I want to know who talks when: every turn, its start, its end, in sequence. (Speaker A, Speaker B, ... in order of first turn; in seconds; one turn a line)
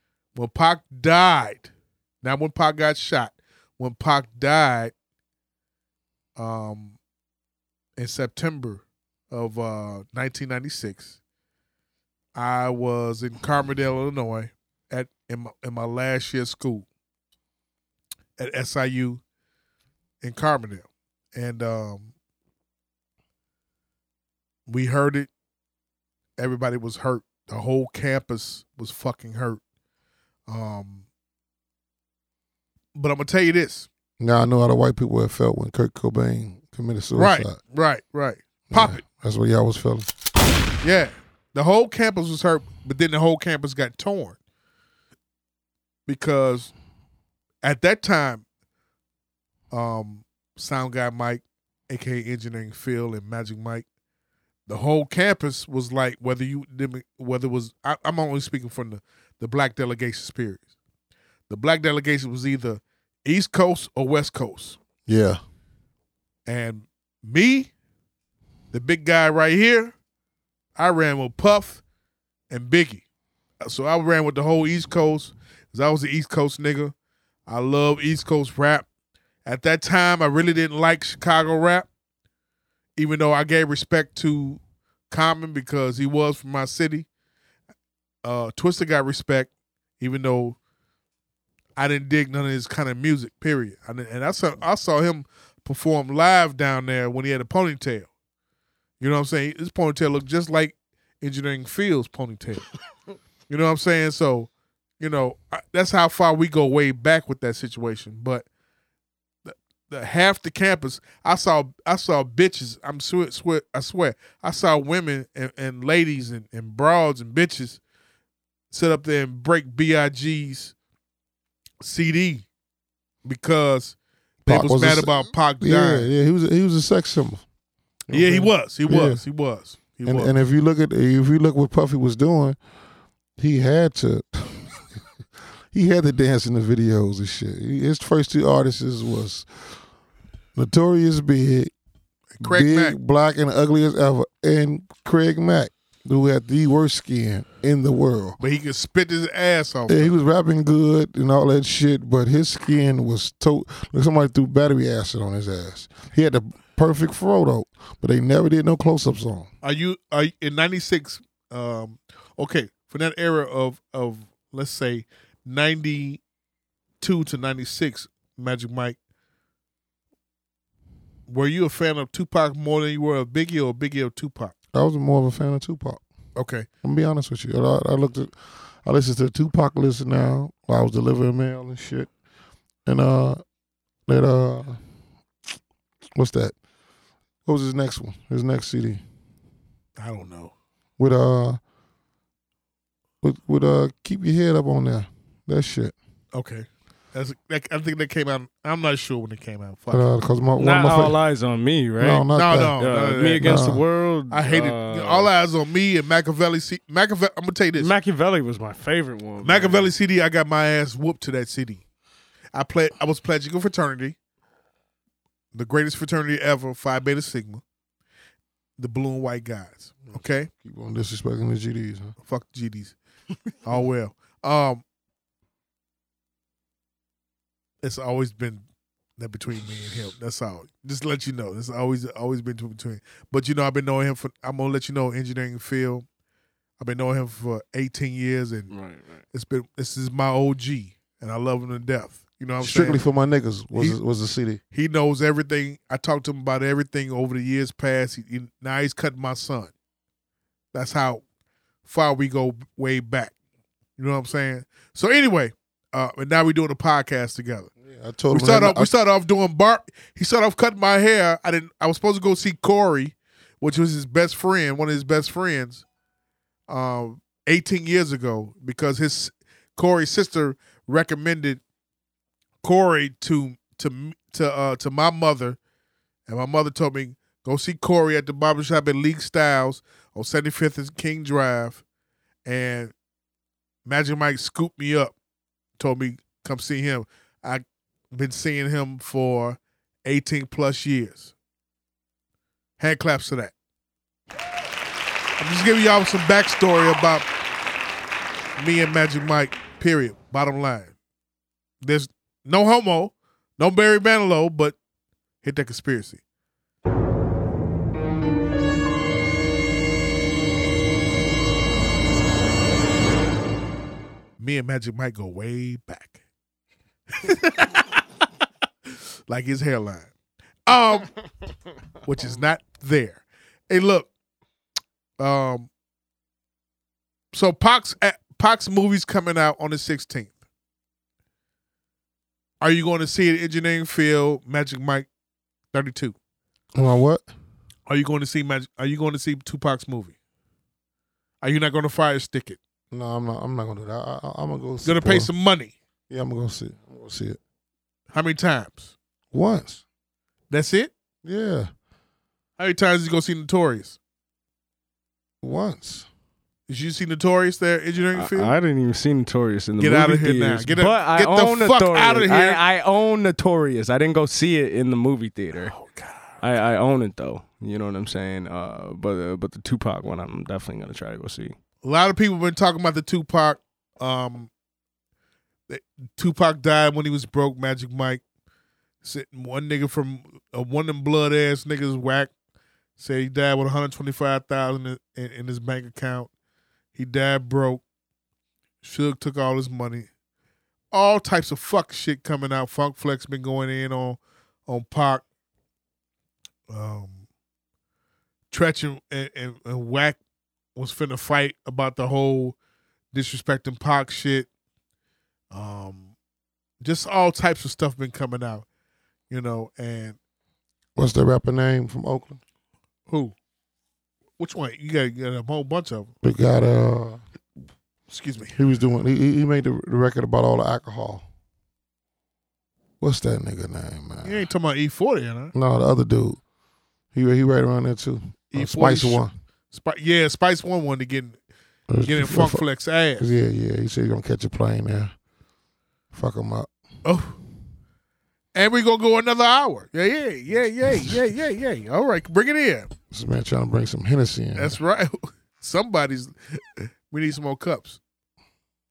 Speaker A: 0.3-1.7
Speaker A: 2.2-4.9
Speaker A: 6.4-7.0
Speaker A: 8.0-11.2
Speaker A: 12.3-16.9
Speaker A: 18.4-19.2
Speaker A: 20.2-22.1
Speaker A: 24.7-25.3
Speaker A: 26.4-29.6
Speaker A: 30.5-31.0
Speaker A: 33.0-33.9
Speaker B: 34.2-37.6
Speaker A: 37.2-39.0
Speaker B: 38.7-40.1
Speaker A: 40.8-44.4
Speaker A: 46.1-46.7
Speaker A: 47.6-48.4
Speaker A: 49.7-53.9
Speaker A: 54.7-60.7
Speaker A: 61.5-64.8
Speaker B: 65.1-65.4
Speaker A: 66.5-67.7
Speaker A: 68.7-69.9
Speaker A: 70.8-71.8
Speaker A: 72.5-73.0
Speaker A: 73.6-76.9
Speaker A: 77.5-78.9
Speaker A: 79.5-81.9
Speaker A: 83.0-87.1
Speaker A: 88.2-90.6
Speaker A: 91.8-98.1
Speaker A: 99.0-102.7
Speaker A: 103.5-104.5
Speaker A: 105.0-108.5
Speaker A: 109.5-117.8
Speaker A: 118.7-120.7
Speaker A: 121.8-122.5
Speaker A: 123.2-126.1
Speaker B: 124.5-127.4
Speaker B: 128.1-129.2
Speaker A: 128.1-130.3
Speaker B: 130.1-132.6
Speaker B: 133.4-134.7
Speaker B: 135.7-139.5
Speaker B: 140.6-141.7
Speaker A: 142.4-143.0
Speaker B: 142.4-148.4
Speaker A: 148.4-150.1
Speaker B: 149.9-159.5
Speaker A: 159.6-166.2
Speaker A: 167.0-169.0
Speaker A: 171.3-174.6
Speaker B: 174.7-176.0
Speaker A: 176.4-176.7
Speaker B: 176.8-182.1
Speaker B: 182.9-183.4
Speaker B: 184.1-184.8
Speaker B: 186.2-186.6
Speaker B: 187.4-189.0
Speaker A: 190.0-190.5
Speaker B: 191.0-191.6
Speaker B: 193.2-195.9
Speaker A: 196.3-200.1
Speaker B: 199.9-201.2
Speaker C: 200.6-205.3
Speaker B: 202.0-202.8
Speaker A: 202.3-203.7
Speaker B: 203.4-203.8
Speaker A: 204.3-207.9
Speaker C: 207.8-209.9
Speaker A: 209.4-211.8
Speaker A: 212.5-214.2
Speaker A: 215.5-217.6
Speaker A: 218.8-220.5
Speaker B: 220.6-222.2
Speaker A: 222.2-223.0
Speaker A: 223.6-224.8
Speaker A: 227.8-228.6
Speaker A: 229.2-236.1
Speaker A: 236.8-238.7
Speaker C: 238.7-239.2
Speaker A: 239.3-243.0
Speaker B: 242.6-244.6
Speaker A: 244.7-249.7
Speaker A: 250.7-251.2
Speaker A: 251.8-253.3
Speaker A: 254.0-257.7
Speaker B: 257.9-258.9
Speaker A: 258.3-265.8
Speaker A: 266.7-271.6
Speaker A: 272.6-275.6
Speaker A: 276.3-281.8
Speaker A: 282.5-282.9
Speaker A: 283.9-285.1
Speaker A: 285.8-291.3
Speaker A: 292.8-293.5
Speaker A: 295.4-297.3
Speaker A: 298.6-300.9
Speaker A: 301.8-304.8
Speaker A: 305.4-306.2
Speaker A: 314.4-316.2
Speaker A: 317.1-318.0
Speaker A: 319.3-320.1
Speaker A: 320.7-321.1
Speaker A: 322.1-324.1
Speaker A: 325.2-325.7
Speaker A: 327.3-330.3
Speaker A: 332.6-335.1
Speaker A: 335.7-336.1
Speaker B: 336.8-337.2
Speaker A: 337.9-340.1
Speaker A: 341.4-342.6
Speaker B: 342.9-345.3
Speaker A: 344.8-345.7
Speaker B: 346.1-347.4
Speaker A: 348.1-348.9
Speaker B: 349.3-349.8
Speaker A: 350.5-350.9
Speaker B: 351.2-351.7
Speaker A: 352.6-354.0
Speaker B: 355.4-356.1
Speaker A: 356.7-358.5
Speaker C: 358.1-365.7
Speaker A: 359.8-362.6
Speaker A: 365.6-366.4
Speaker C: 366.4-371.6
Speaker A: 371.8-374.5
Speaker A: 375.7-378.2
Speaker A: 379.0-382.3
Speaker A: 383.0-386.3
Speaker A: 386.9-387.8
Speaker A: 388.8-390.1
Speaker A: 390.9-395.2
Speaker A: 396.7-397.2
Speaker A: 398.5-400.2
Speaker A: 400.8-402.6
Speaker A: 403.1-404.5
Speaker A: 405.5-406.1
Speaker A: 406.8-408.6
Speaker A: 409.3-410.2
Speaker B: 411.0-412.4
Speaker A: 413.1-413.3
Speaker A: 414.4-416.1
Speaker B: 416.2-417.2
Speaker A: 418.1-418.6
Speaker B: 418.6-421.3
Speaker B: 423.0-424.4
Speaker A: 424.2-425.5
Speaker B: 425.5-426.4
Speaker B: 427.1-429.3
Speaker A: 428.5-431.4
Speaker B: 431.9-432.6
Speaker A: 432.1-433.3
Speaker B: 433.2-435.1
Speaker B: 436.1-436.7
Speaker A: 437.1-437.4
Speaker A: 438.6-442.9
Speaker B: 443.1-444.8
Speaker A: 444.6-448.0